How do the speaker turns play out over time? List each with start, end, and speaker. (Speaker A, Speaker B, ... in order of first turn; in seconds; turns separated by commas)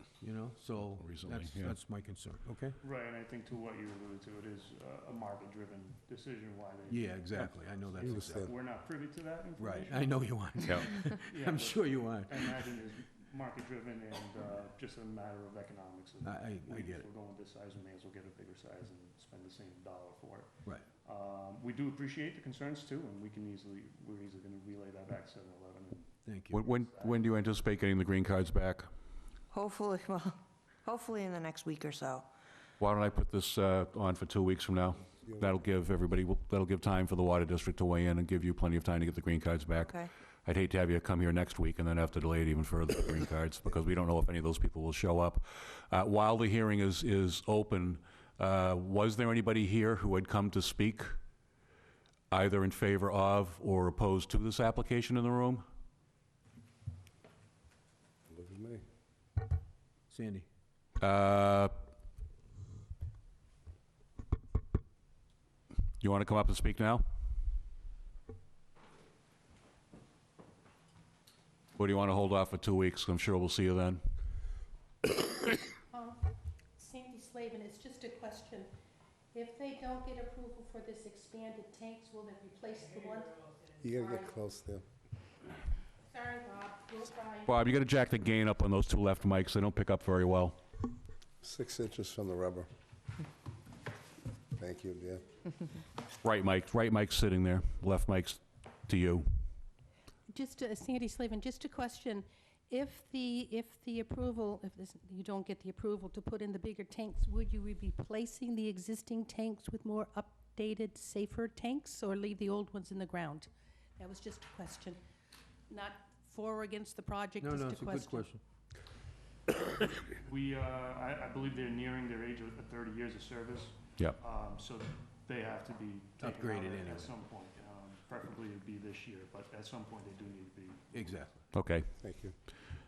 Speaker A: 0.2-2.8, Speaker B: 0.8-1.8, Speaker C: 2.8-20.5, Speaker A: 6.9-8.5, Speaker D: 8.0-8.5, Speaker A: 9.6-12.5, Speaker B: 10.6-10.9, Speaker A: 16.2-17.1, Speaker C: 21.0-27.3, Speaker A: 26.2-26.6, Speaker B: 26.5-28.9, Speaker E: 29.5-32.3, Speaker B: 32.8-51.1, Speaker D: 35.2-35.6, Speaker E: 39.8-40.1, Speaker B: 52.3-55.6, Speaker D: 58.3-58.8, Speaker A: 60.1-60.5, Speaker B: 61.0-61.7, Speaker B: 66.0-67.0, Speaker B: 71.8-74.0, Speaker F: 75.9-76.2, Speaker F: 76.8-78.7, Speaker F: 79.3-83.5, Speaker D: 83.8-84.8, Speaker F: 84.0-84.2, Speaker F: 86.1-87.6, Speaker B: 87.5-90.6, Speaker D: 91.4-92.7, Speaker D: 94.6-95.2, Speaker B: 96.2-99.2, Speaker F: 100.3-115.0, Speaker F: 115.7-118.3, Speaker A: 117.4-118.4, Speaker C: 120.1-131.2, Speaker A: 126.2-127.1, Speaker A: 130.9-131.3, Speaker B: 131.5-131.9, Speaker D: 132.0-132.3